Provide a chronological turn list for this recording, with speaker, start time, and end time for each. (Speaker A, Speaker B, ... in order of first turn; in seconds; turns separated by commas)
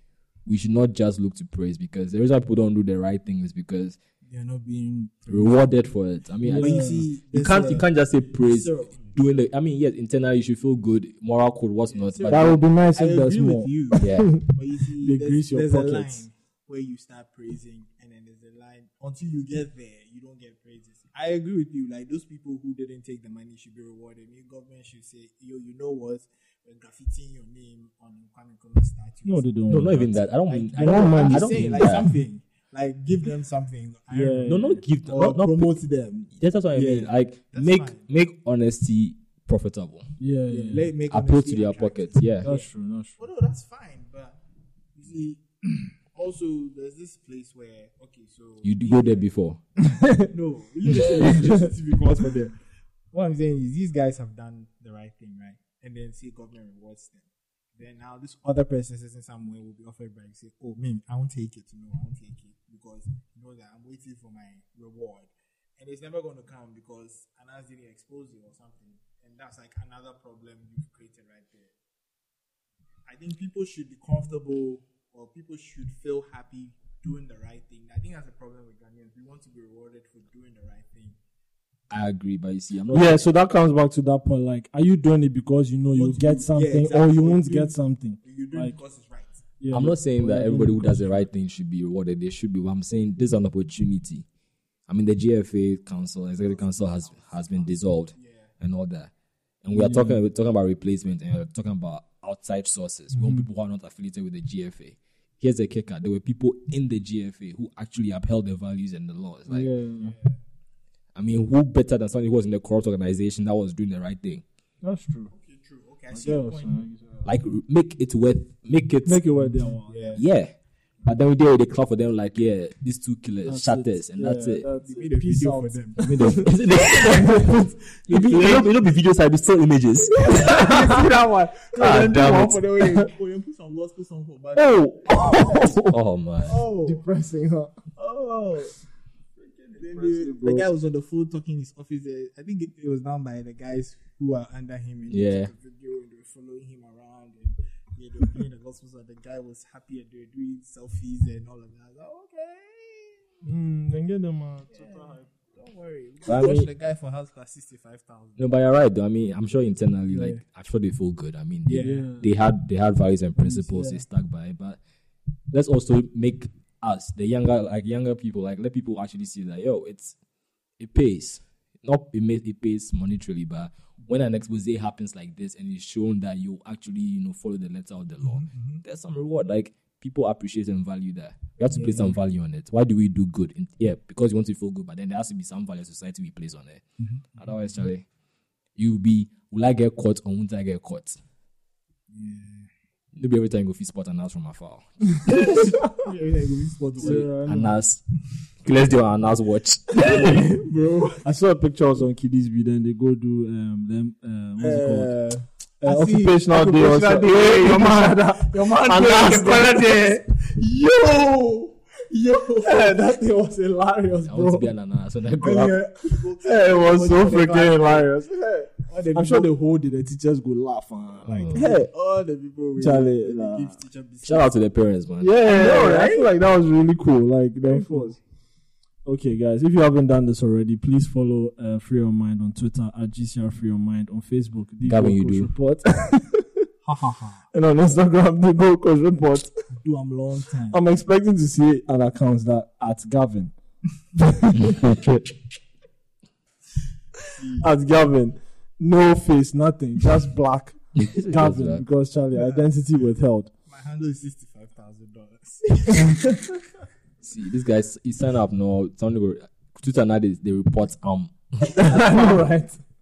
Speaker A: 0.5-4.0, Speaker B: 4.3-5.7, Speaker A: 5.3-12.6, Speaker C: 6.4-7.0, Speaker B: 6.5-9.1, Speaker B: 11.9-38.0, Speaker C: 12.3-16.2, Speaker A: 14.0-14.3, Speaker C: 29.3-30.1, Speaker A: 29.7-32.1, Speaker C: 30.8-31.9, Speaker C: 34.1-34.8, Speaker A: 34.5-35.8, Speaker A: 36.4-40.1, Speaker C: 40.2-40.9, Speaker B: 40.5-42.7, Speaker A: 41.1-42.5, Speaker C: 42.4-43.2, Speaker B: 43.2-44.4, Speaker B: 45.0-49.2, Speaker A: 48.6-49.6, Speaker C: 49.8-50.3, Speaker B: 50.2-52.6, Speaker C: 51.2-51.7, Speaker B: 53.1-71.7, Speaker B: 73.1-81.2, Speaker A: 81.9-83.2, Speaker C: 82.9-88.7, Speaker B: 85.9-89.4, Speaker C: 89.6-91.2, Speaker A: 89.7-94.2, Speaker A: 94.9-99.1, Speaker B: 96.4-98.5, Speaker A: 99.6-109.7, Speaker C: 99.7-100.2, Speaker C: 103.1-103.5, Speaker C: 109.5-110.2, Speaker B: 110.0-110.4, Speaker A: 111.2-114.4, Speaker C: 114.8-115.3, Speaker B: 115.3-116.9, Speaker C: 116.1-117.3, Speaker A: 117.2-119.4, Speaker C: 119.1-120.0, Speaker B: 119.8-120.2, Speaker A: 120.2-120.5, Speaker A: 121.0-124.7, Speaker C: 123.5-128.7, Speaker B: 124.8-127.6, Speaker A: 126.0-131.1, Speaker B: 128.3-128.7, Speaker B: 130.1-135.8, Speaker C: 130.3-130.9, Speaker A: 131.8-132.6, Speaker C: 134.6-135.9, Speaker A: 135.8-136.6, Speaker B: 136.5-137.1, Speaker C: 136.5-137.8, Speaker B: 138.0-138.8, Speaker C: 139.6-140.7, Speaker B: 139.7-153.3, Speaker A: 145.1-145.5, Speaker C: 153.4-155.2, Speaker B: 154.7-158.4, Speaker A: 156.2-156.7, Speaker A: 158.4-164.8, Speaker B: 160.1-160.4, Speaker B: 161.7-162.1, Speaker C: 161.8-162.3, Speaker B: 163.6-164.0, Speaker A: 165.5-170.2, Speaker A: 170.8-186.8, Speaker B: 178.2-178.8, Speaker B: 181.7-182.2, Speaker B: 187.0-187.3, Speaker A: 187.4-188.1, Speaker A: 188.8-191.2, Speaker B: 192.1-192.7, Speaker A: 193.2-195.7, Speaker B: 195.3-197.3, Speaker C: 197.0-197.8, Speaker A: 197.0-198.0, Speaker A: 198.6-200.5, Speaker B: 200.0-201.2, Speaker C: 201.2-205.1, Speaker B: 204.6-213.2, Speaker C: 205.8-210.0, Speaker C: 212.7-214.6, Speaker A: 214.2-215.8, Speaker B: 215.4-218.1, Speaker C: 216.4-221.9, Speaker B: 218.8-219.5, Speaker A: 221.2-221.6, Speaker B: 221.5-224.5, Speaker C: 222.8-223.7, Speaker A: 224.2-225.4, Speaker C: 225.2-228.2, Speaker B: 225.4-226.3, Speaker B: 227.6-228.1, Speaker C: 229.1-236.7, Speaker A: 234.8-235.5, Speaker B: 236.8-237.5, Speaker C: 237.5-239.5, Speaker B: 239.8-240.8, Speaker C: 240.7-243.5, Speaker C: 244.2-244.9, Speaker A: 244.6-245.2, Speaker B: 247.3-247.7, Speaker C: 247.6-253.5, Speaker A: 250.9-251.8, Speaker B: 253.7-256.5, Speaker A: 257.2-261.6, Speaker B: 261.7-262.7, Speaker C: 261.8-262.4